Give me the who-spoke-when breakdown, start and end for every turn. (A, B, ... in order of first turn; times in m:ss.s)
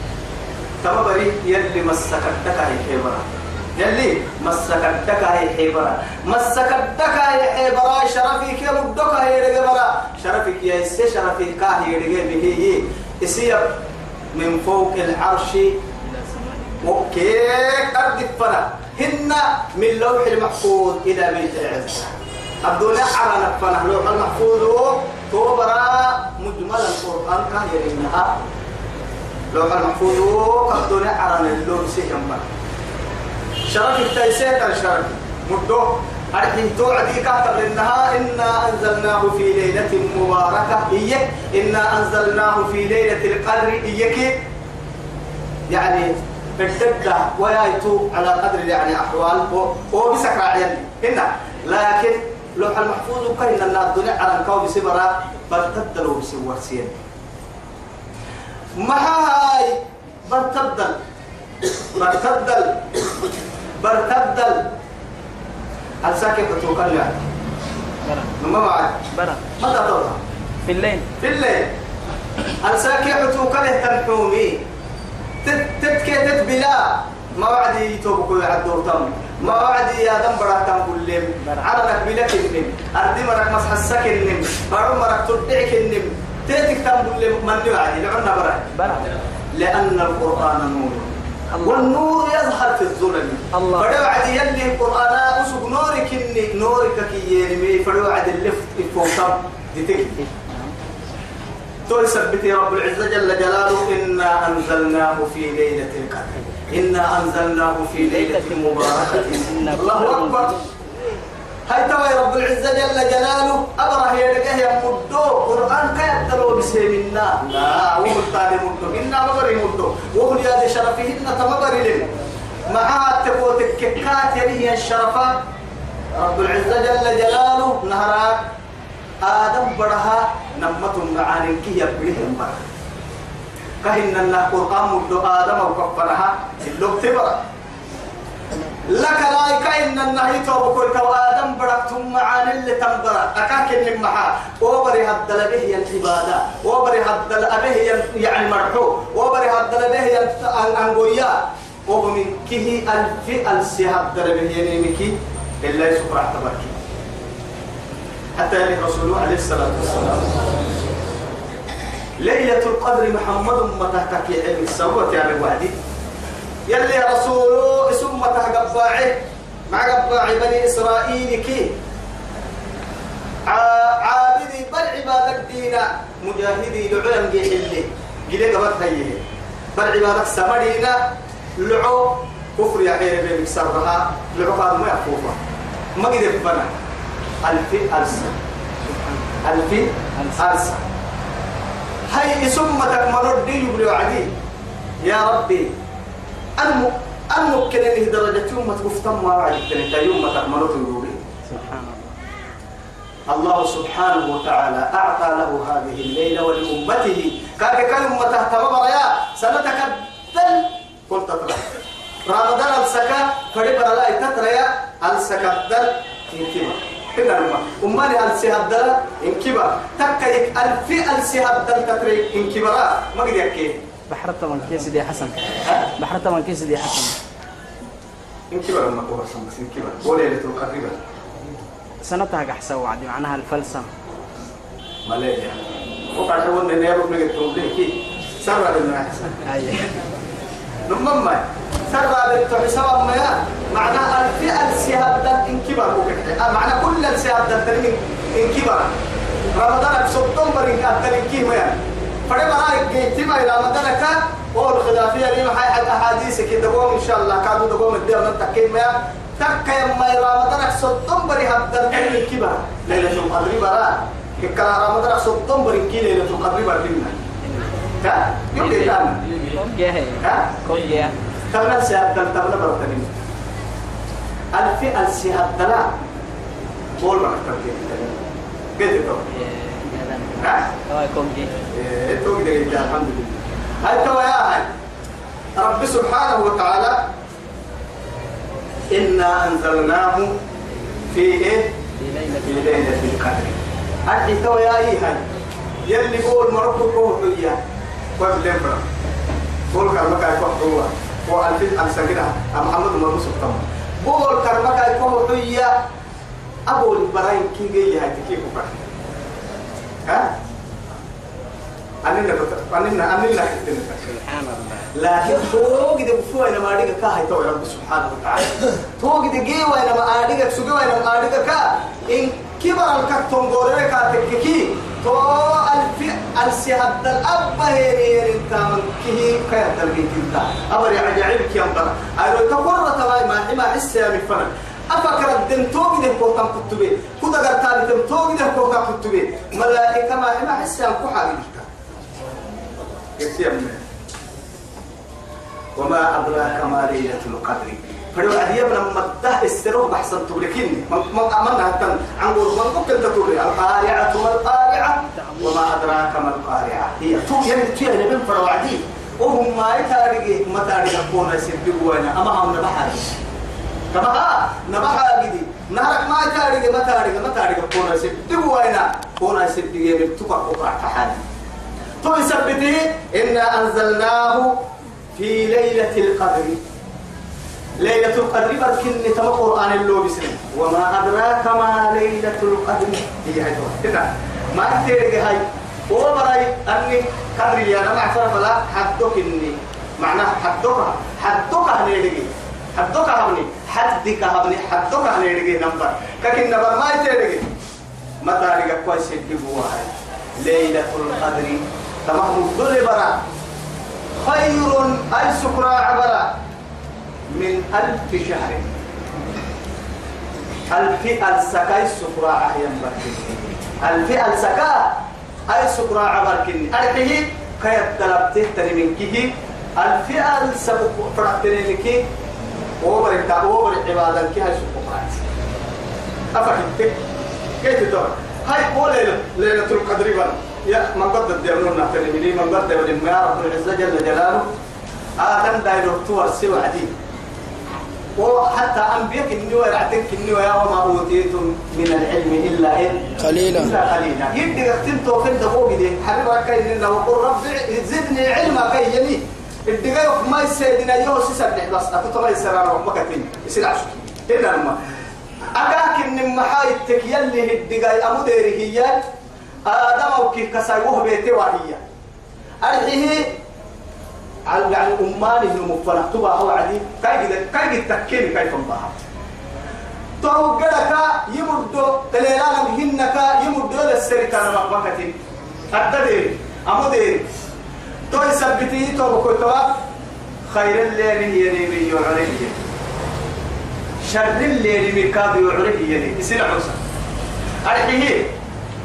0:00.8-0:15.8 A
0:16.0-0:16.8 B
0:16.8-0:28.4 A
0:29.5-0:32.5 A
0:33.7-0:44.3 A
0:45.7-0:57.0 A
0:58.8-1:01.0 A
1:02.0-1:02.9 A
1:03.8-1:04.7 A
1:06.0-1:07.3 A
1:08.0-1:08.3 B
1:08.4-1:09.0 A
1:09.1-1:09.5 B
1:09.6-1:10.2 A
1:10.6-1:11.1 B
1:11.2-1:11.7 A
1:12.6-1:14.6 A
1:15.4-1:29.0 A
1:21.4-1:21.7 B
1:28.8-1:29.2 B
1:29.5-1:40.2 A
1:31.5-1:32.0 B
1:33.5-1:34.0 B
1:40.2-1:40.7 B
1:41.9-1:50.6 A
1:47.9-1:50.6 B
1:51.7-2:02.1 A
2:02.7-2:05.4 A
2:06.1-2:08.4 A
2:09.2-2:12.6 A
2:13.8-2:17.5 A
2:18.8-2:36.8 A
2:38.4-2:40.4 A
2:42.2-2:45.8 A
2:46.7-2:51.8 A
2:53.4-2:59.2 A
2:59.7-3:01.0 A
3:01.6-3:05.4 A
3:06.0-3:06.7 A
3:07.4-3:08.4 A
3:08.8-3:09.3 B
3:09.4-3:10.8 A
3:10.1-3:10.5 B
3:12.1-3:14.3 A
3:15.0-3:15.7 A
3:16.6-3:21.2 A
3:21.4-3:22.2 B
3:23.3-3:43.8 A
3:44.1-3:47.2 B
3:48.5-3:51.0 A
3:52.0-3:53.9 B
3:55.0-3:59.4 A
3:59.4-4:00.0 B
4:00.9-4:09.0 A
4:09.5-4:27.2 A
4:27.4-4:27.8 B
4:28.0-4:29.2 A
4:28.6-4:31.2 B
4:30.2-4:30.5 A
4:31.5-4:33.2 A
4:34.5-4:35.9 A
4:37.0-4:38.2 A
4:38.8-4:39.3 A
4:39.3-4:41.5 B
4:40.4-4:40.7 A
4:41.7-4:44.7 A
4:45.6-4:47.0 A
4:48.9-4:50.4 A
4:51.1-4:51.8 A
4:52.0-4:52.9 B
4:52.4-4:55.2 A
4:55.8-4:57.6 A
4:58.2-4:58.9 A
4:59.7-5:05.7 A
5:06.7-5:08.9 A
5:10.0-5:10.3 A
5:12.0-5:14.1 A
5:14.0-5:14.9 B
5:14.9-5:41.7 A
5:43.2-5:43.8 A
5:45.8-6:03.2 A
5:55.0-5:55.9 B
6:03.9-6:11.2 A
6:12.0-6:16.6 A
6:17.8-6:37.5 A
6:38.2-6:43.2 A
6:44.2-6:46.3 A
6:47.3-6:48.7 A
6:50.7-7:02.0 A
7:02.8-7:05.2 A
7:06.3-7:07.0 A
7:07.6-7:14.5 A
7:15.2-7:16.9 A
7:18.2-7:34.8 A
7:35.5-7:39.0 A
7:39.6-7:41.8 A
7:42.6-7:43.4 A
7:44.4-7:49.0 A
7:50.2-7:55.2 A
7:55.7-7:57.3 A
7:58.1-7:59.8 A
8:00.5-8:02.6 A
8:04.0-8:06.8 A
8:07.6-8:08.3 A